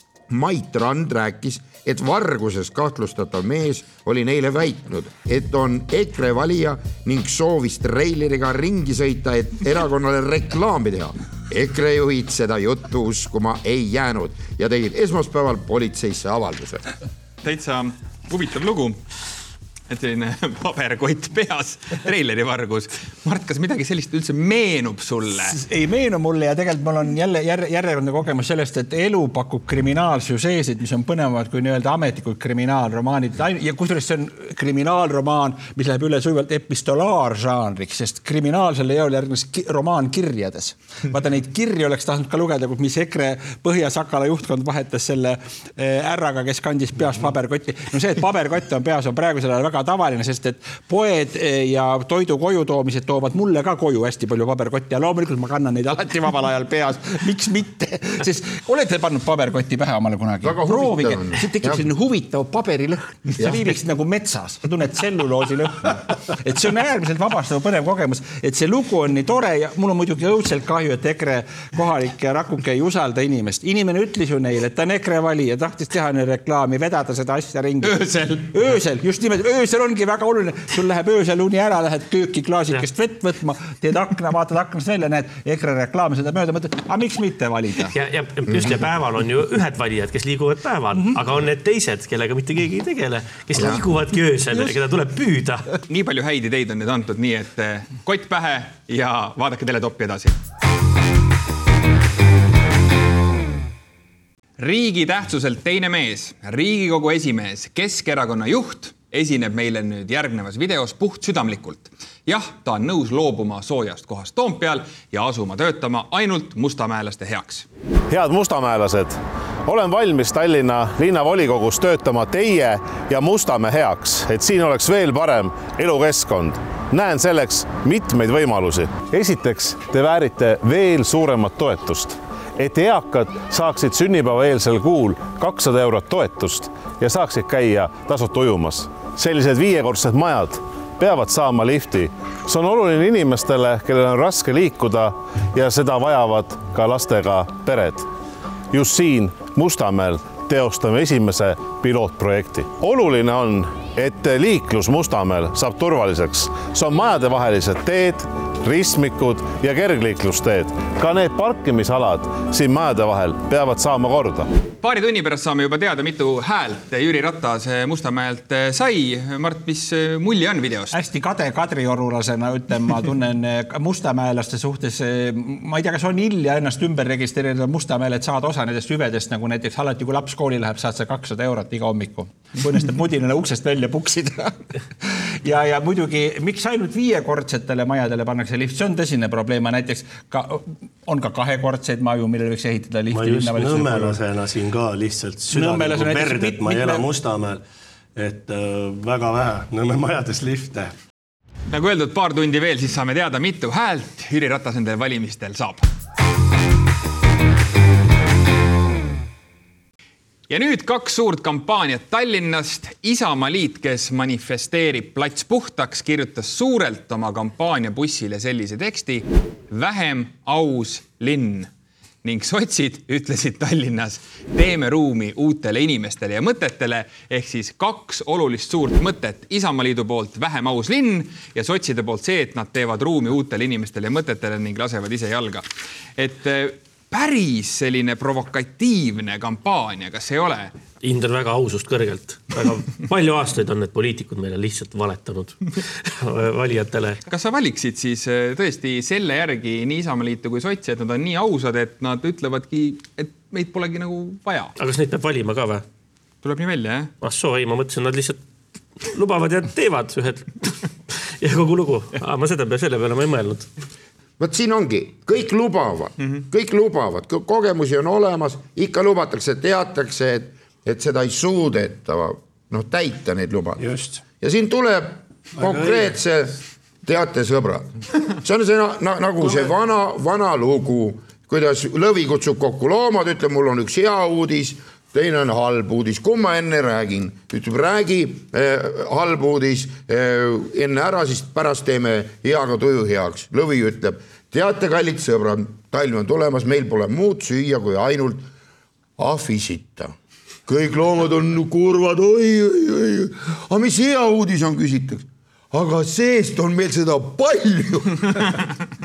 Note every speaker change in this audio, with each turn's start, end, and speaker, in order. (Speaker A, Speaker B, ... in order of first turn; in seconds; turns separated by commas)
Speaker A: 0.3-16.8, Speaker B: 17.4-19.0, Speaker B: 19.9-25.6, Speaker C: 25.5-87.9, Speaker A: 60.4-61.8, Speaker B: 77.8-78.5, Speaker D: 87.9-95.7, Speaker B: 95.9-100.4, Speaker B: 104.6-117.7, Speaker E: 118.1-148.1, Speaker E: 148.7-164.5, Speaker B: 164.8-170.9, Speaker C: 170.9-194.2, Speaker F: 193.1-197.6, Speaker C: 195.5-197.1, Speaker F: 198.2-200.9, Speaker B: 201.7-205.9, Speaker B: 210.5-221.7, Speaker B: 222.2-235.7, Speaker B: 236.2-240.8, Speaker D: 241.0-247.2, Speaker B: 247.3-254.8, Speaker D: 254.8-255.8, Speaker B: 256.4-257.1, Speaker D: 257.2-258.4, Speaker D: 259.0-263.7, Speaker A: 264.4-273.8, Speaker F: 273.8-274.2, Speaker A: 274.4-298.5, Speaker F: 275.6-276.1, Speaker A: 299.2-300.1, Speaker A: 300.7-308.4